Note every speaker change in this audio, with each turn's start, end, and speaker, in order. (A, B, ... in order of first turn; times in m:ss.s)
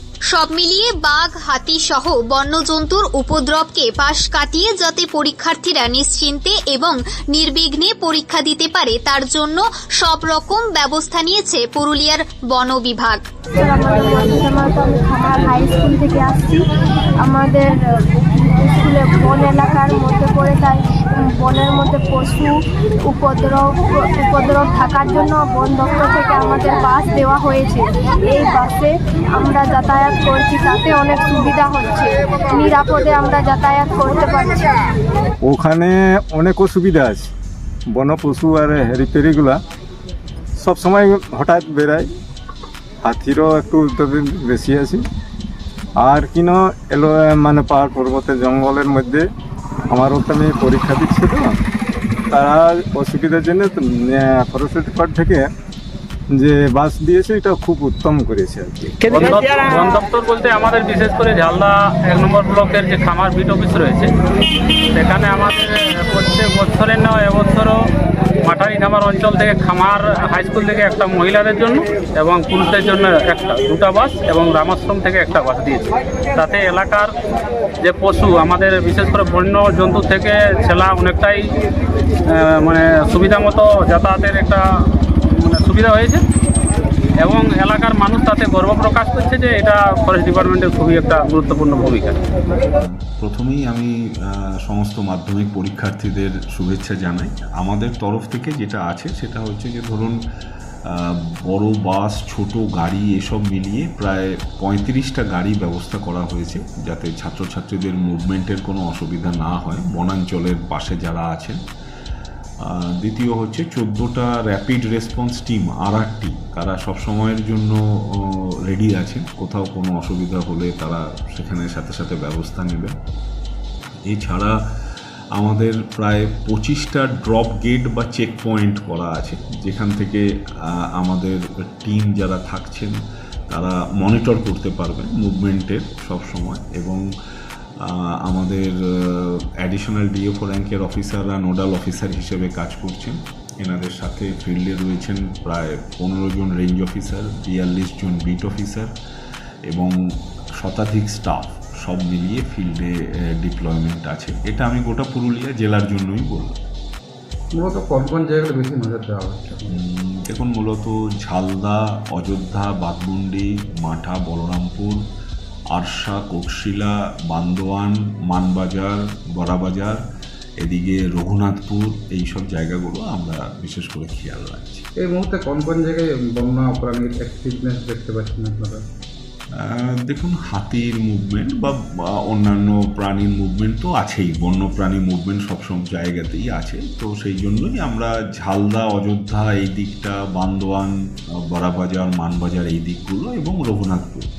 0:00.3-0:13.2 A
0:13.6-0:16.6 B
0:17.2-0:17.8 B
0:18.5-0:34.7 B
0:35.5-0:37.3 C
0:37.9-0:39.6 C
0:40.6-0:42.1 C
0:43.1-0:45.0 C
0:46.0-0:49.3 C
0:49.9-0:51.5 C
0:52.3-0:55.5 C
0:56.3-0:59.3 C
0:59.1-1:04.1 D
1:05.0-1:07.8 D
1:08.4-1:15.8 D
1:16.4-1:17.1 D
1:17.8-1:21.4 D
1:22.3-1:24.6 D
1:25.4-1:26.2 D
1:27.2-1:32.2 D
1:32.6-1:40.2 E
1:40.9-1:51.6 E
1:53.0-2:02.9 E
2:04.1-2:04.5 E
2:05.4-2:10.2 E
2:10.8-2:13.0 E
2:13.5-2:17.0 E
2:17.9-2:28.9 E
2:30.6-2:36.6 E
2:37.6-2:39.8 F
2:39.8-2:45.0 E
2:45.8-2:50.0 E
2:50.6-2:54.8 E
2:55.0-2:58.8 F
2:59.6-3:10.9 E
3:11.5-3:14.2 E